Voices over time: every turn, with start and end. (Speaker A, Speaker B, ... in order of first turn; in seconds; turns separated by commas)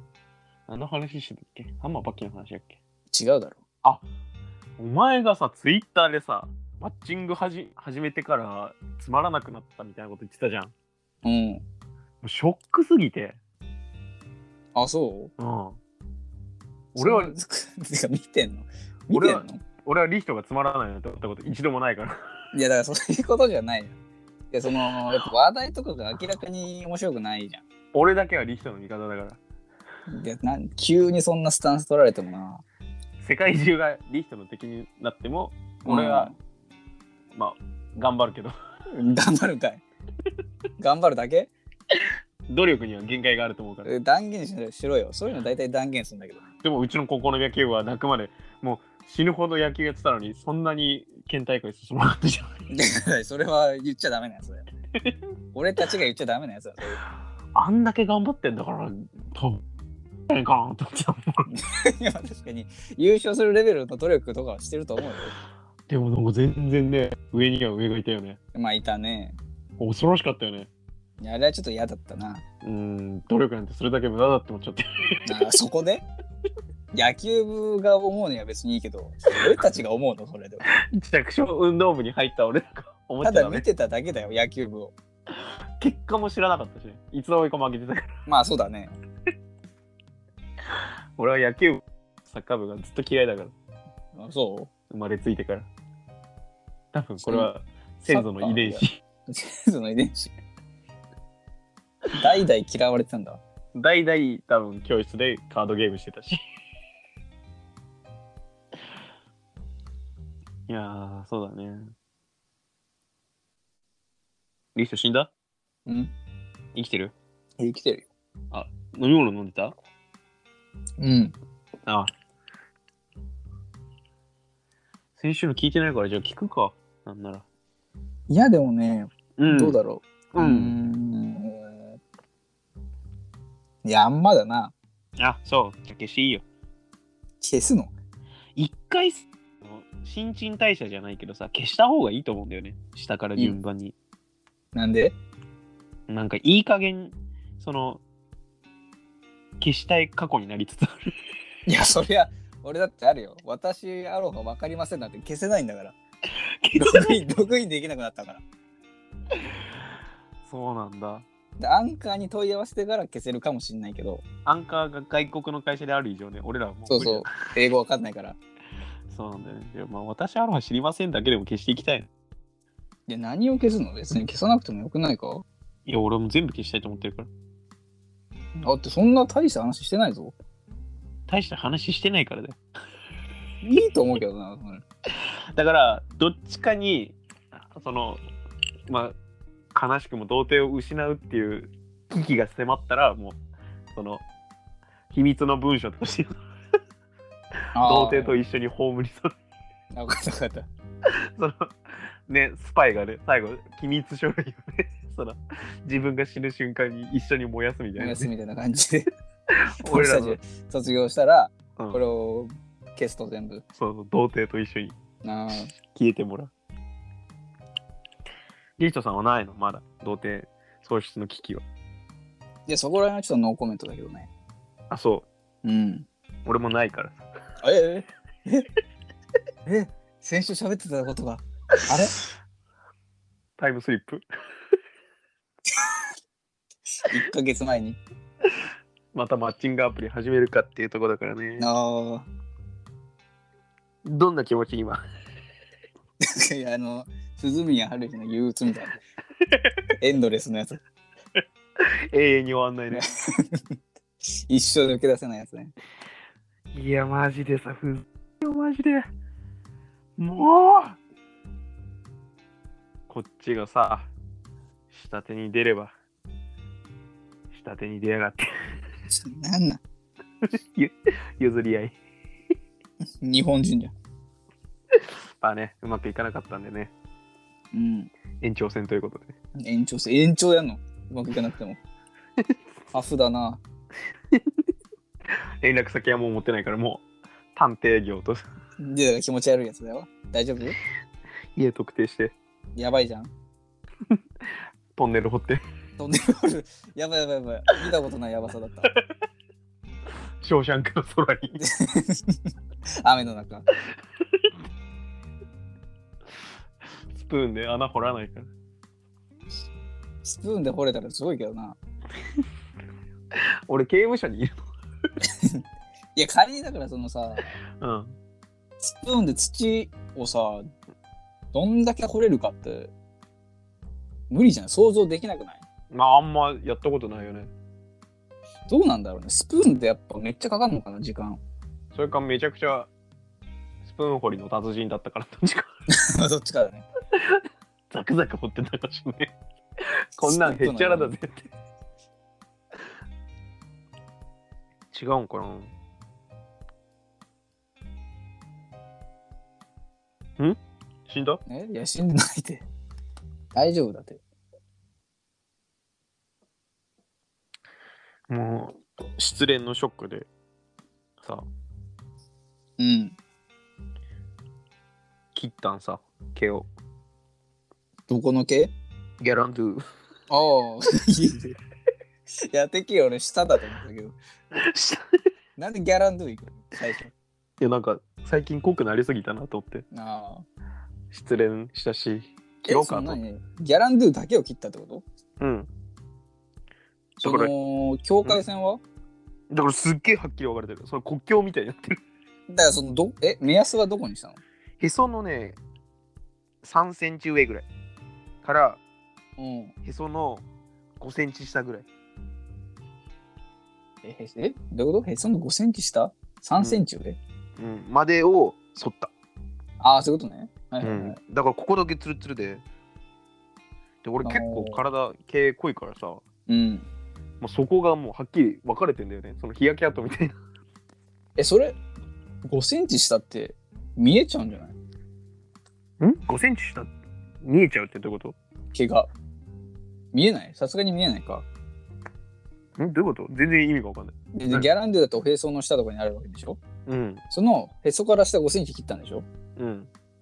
Speaker A: 0.7-2.8, Speaker B: 3.1-3.6, Speaker A: 4.8-10.7, Speaker B: 11.2-11.7, Speaker A: 12.2-13.4, Speaker B: 14.8-15.3, Speaker A: 15.4-15.8, Speaker A: 16.9-17.3, Speaker B: 17.0-19.6, Speaker A: 19.1-22.2, Speaker B: 22.5-23.9, Speaker B: 24.5-27.6, Speaker A: 27.9-29.4, Speaker B: 30.1-32.6, Speaker A: 33.2-36.3, Speaker B: 35.9-36.4, Speaker A: 37.3-38.5, Speaker B: 38.9-39.8, Speaker B: 40.8-41.5, Speaker A: 42.5-43.9, Speaker B: 43.9-46.4, Speaker A: 46.6-52.5, Speaker B: 52.7-54.7, Speaker B: 55.5-57.0, Speaker A: 57.5-59.6, Speaker A: 60.3-61.5, Speaker B: 61.5-65.4, Speaker A: 65.9-68.4, Speaker B: 68.5-69.4, Speaker A: 69.8-70.7, Speaker B: 71.2-72.4, Speaker A: 72.6-75.5, Speaker B: 75.3-76.1, Speaker B: 76.9-80.7, Speaker A: 80.7-83.7, Speaker B: 83.2-84.9, Speaker A: 85.4-88.1, Speaker B: 88.3-88.9, Speaker A: 90.7-93.5, Speaker B: 94.2-94.7, Speaker A: 94.9-95.7, Speaker A: 96.9-99.0, Speaker B: 97.2-97.5, Speaker B: 98.1-100.3, Speaker B: 102.2-103.4, Speaker A: 103.8-106.4, Speaker A: 110.7-111.9, Speaker A: 114.8-115.3, Speaker B: 115.9-116.1, Speaker A: 116.8-117.1, Speaker B: 117.6-118.1, Speaker A: 118.5-119.8, Speaker B: 121.0-121.3, Speaker A: 121.9-122.1, Speaker A: 125.2-127.5, Speaker B: 128.3-132.0, Speaker A: 129.4-129.8, Speaker A: 130.3-130.8, Speaker B: 133.8-134.7, Speaker A: 135.2-136.4, Speaker B: 137.4-137.9, Speaker A: 138.6-143.9, Speaker B: 144.8-145.2, Speaker A: 146.1-148.0, Speaker A: 149.6-151.0, Speaker B: 151.7-156.0, Speaker A: 156.6-157.2, Speaker B: 156.8-158.4, Speaker A: 160.4-161.3, Speaker B: 161.6-164.2, Speaker A: 164.5-167.3, Speaker B: 166.9-168.4, Speaker A: 169.1-172.1, Speaker B: 173.1-175.4, Speaker A: 175.9-177.3, Speaker B: 178.6-180.3, Speaker A: 181.3-182.6, Speaker B: 183.6-184.8, Speaker A: 185.5-188.2, Speaker A: 188.9-189.2, Speaker A: 189.7-193.4, Speaker A: 193.9-194.2, Speaker A: 195.1-196.4, Speaker B: 197.8-198.4, Speaker A: 197.8-199.3, Speaker B: 199.9-200.7, Speaker A: 201.1-208.3, Speaker B: 208.0-209.1, Speaker A: 209.6-210.4, Speaker B: 209.8-213.7, Speaker A: 213.8-215.0, Speaker B: 215.2-215.7, Speaker A: 215.7-216.5, Speaker A: 218.8-221.7, Speaker B: 222.7-224.3, Speaker A: 224.9-225.3, Speaker B: 225.6-226.1, Speaker A: 226.4-227.2, Speaker B: 227.6-228.7, Speaker B: 229.7-232.2, Speaker A: 233.6-234.2, Speaker B: 237.0-238.0, Speaker A: 239.1-241.7, Speaker B: 241.6-242.3, Speaker A: 244.0-245.0, Speaker B: 246.2-249.0, Speaker A: 249.4-249.7, Speaker B: 250.0-250.8, Speaker A: 251.8-253.1, Speaker B: 252.9-253.8, Speaker B: 254.5-255.7, Speaker A: 256.7-259.1, Speaker A: 260.2-261.0, Speaker A: 263.1-264.1, Speaker A: 264.9-265.9, Speaker A: 267.5-268.5, Speaker B: 269.1-269.8, Speaker A: 270.4-271.9, Speaker B: 273.2-273.9, Speaker A: 274.9-276.9, Speaker B: 277.7-278.1, Speaker A: 278.4-279.4, Speaker B: 279.6-281.8, Speaker B: 282.9-283.6, Speaker A: 284.3-284.6, Speaker A: 285.6-287.0, Speaker A: 287.6-288.4, Speaker B: 288.8-290.8, Speaker A: 291.6-292.3, Speaker B: 292.8-293.3, Speaker A: 294.9-295.6, Speaker B: 296.0-298.9, Speaker A: 300.4-301.6, Speaker B: 301.6-302.4, Speaker B: 303.0-303.7, Speaker A: 307.1-308.5, Speaker B: 310.2-311.8, Speaker A: 313.3-314.7, Speaker B: 316.2-317.5, Speaker A: 317.8-318.1, Speaker B: 318.8-320.7, Speaker B: 321.5-322.9, Speaker B: 324.3-325.6, Speaker A: 325.9-327.5, Speaker B: 328.7-331.4, Speaker A: 331.9-332.9, Speaker A: 333.8-335.7, Speaker B: 335.9-336.9, Speaker A: 337.1-341.5, Speaker B: 340.2-341.1, Speaker A: 344.9-345.7, Speaker A: 350.4-351.4, Speaker B: 351.5-352.7, Speaker B: 353.5-354.2, Speaker A: 358.3-360.3, Speaker A: 361.2-361.5, Speaker B: 362.8-363.1, Speaker A: 365.4-366.7, Speaker B: 368.1-368.7, Speaker A: 369.2-369.9, Speaker B: 370.3-371.6, Speaker B: 372.5-374.2, Speaker A: 374.5-375.1, Speaker B: 375.6-377.1, Speaker A: 377.6-379.9, Speaker B: 379.9-380.5, Speaker A: 381.1-383.2, Speaker B: 382.7-385.1, Speaker A: 385.4-385.7, Speaker A: 387.2-387.5, Speaker B: 387.2-388.8, Speaker A: 389.5-392.0, Speaker B: 392.5-394.4, Speaker A: 394.8-395.6, Speaker A: 396.6-397.7, Speaker A: 398.4-398.8, Speaker B: 399.4-399.8, Speaker A: 399.9-400.4, Speaker A: 401.0-401.9, Speaker B: 404.0-407.2, Speaker A: 407.6-409.1, Speaker B: 409.8-411.2, Speaker A: 410.8-412.6, Speaker A: 414.0-416.2, Speaker B: 414.2-414.8, Speaker B: 416.5-416.9, Speaker A: 417.4-420.4, Speaker B: 421.4-421.8, Speaker B: 422.4-424.8, Speaker A: 426.0-428.4, Speaker B: 428.7-429.1, Speaker B: 430.1-431.5, Speaker A: 432.8-434.7, Speaker B: 434.3-436.6, Speaker A: 436.9-437.2, Speaker B: 437.3-439.3, Speaker A: 439.6-439.9